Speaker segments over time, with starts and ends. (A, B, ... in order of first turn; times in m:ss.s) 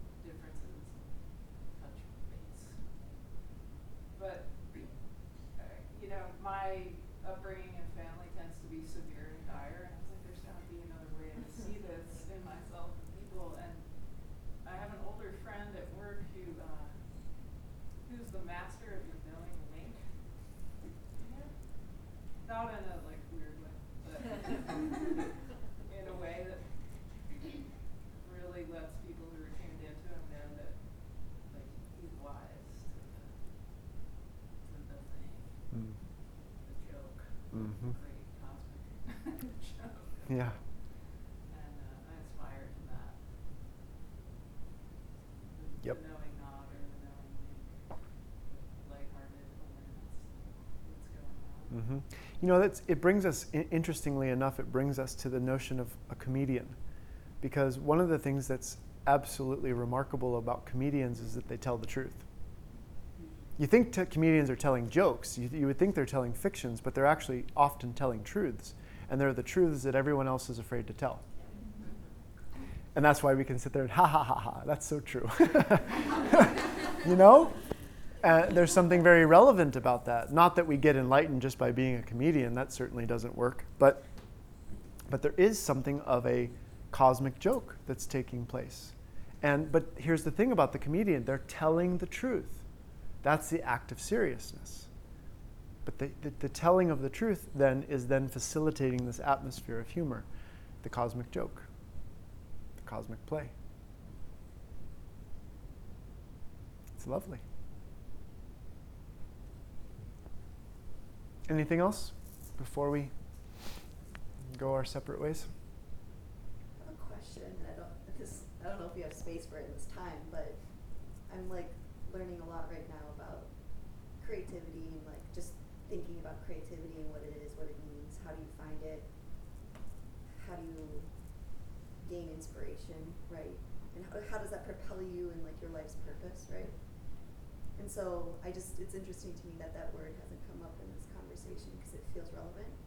0:00.2-0:03.5 A
0:04.1-0:20.2 A
0:21.2-0:27.4 A
0:28.2-0:34.0 A
0:34.6-0:35.7 A
0:35.7-0:36.0 B
0:36.4-0:43.3 A
0:37.5-0:38.0 B
0:40.3-0:40.6 B
0:45.5-0:51.8 A
0:51.7-0:56.8 B
0:57.4-1:02.3 B
1:03.6-1:11.2 B
1:13.0-1:17.6 B
1:18.2-1:24.0 B
1:25.1-1:32.6 B
1:33.2-1:34.9 B
1:35.8-1:40.3 B
1:40.8-1:41.7 B
1:42.8-1:43.5 B
1:47.0-1:47.4 B
1:51.5-1:53.1 B
1:54.5-1:55.5 B
1:56.8-2:09.1 C
2:10.4-2:11.1 C
2:12.0-2:22.8 C